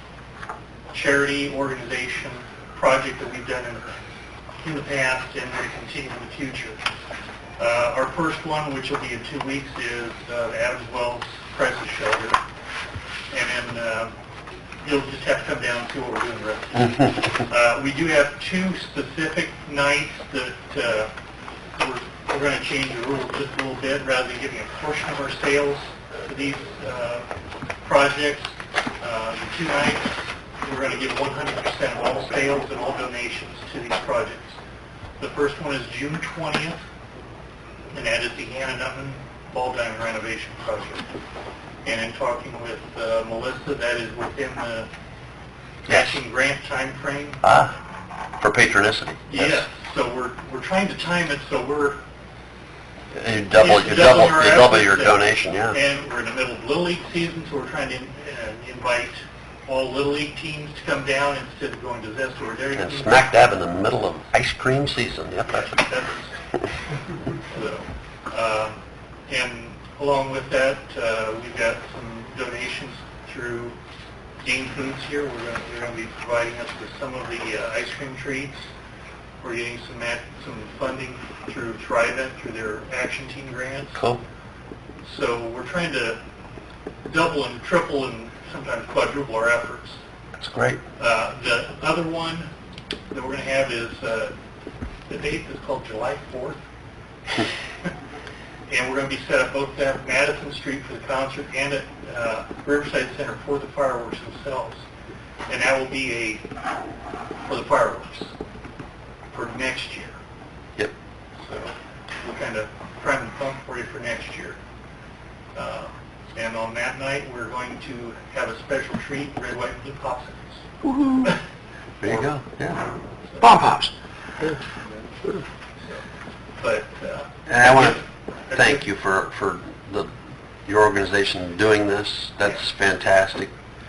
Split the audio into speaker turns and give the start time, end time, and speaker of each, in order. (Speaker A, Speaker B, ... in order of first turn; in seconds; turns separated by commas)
Speaker A: 0.9-3.9, Speaker A: 4.6-6.8, Speaker A: 7.6-12.4, Speaker A: 13.3-14.1, Speaker A: 14.8-21.1, Speaker A: 21.8-27.2, Speaker A: 27.8-34.6, Speaker A: 35.2-36.8, Speaker A: 37.9-41.0, Speaker A: 41.8-44.9, Speaker A: 45.9-47.4, Speaker B: 45.9-46.2, Speaker B: 47.4-47.8, Speaker B: 48.4-49.6, Speaker A: 49.3-52.0, Speaker B: 53.1-55.8, Speaker A: 53.5-63.3, Speaker B: 62.8-65.8, Speaker A: 65.5-66.4, Speaker A: 67.5-73.8, Speaker A: 74.4-78.7, Speaker A: 79.4-84.0, Speaker B: 83.9-84.2, Speaker A: 85.0-86.2, Speaker A: 87.0-90.0, Speaker B: 90.4-90.8, Speaker A: 91.0-92.5, Speaker A: 93.1-94.3, Speaker A: 95.1-96.6, Speaker A: 98.7-104.8, Speaker A: 105.5-106.4, Speaker A: 107.4-108.3, Speaker A: 109.3-110.2, Speaker A: 111.4-114.6, Speaker A: 115.5-120.6, Speaker B: 120.8-121.3, Speaker B: 122.0-123.9, Speaker A: 126.6-128.8, Speaker B: 127.5-128.0, Speaker B: 128.5-130.1, Speaker B: 130.7-133.5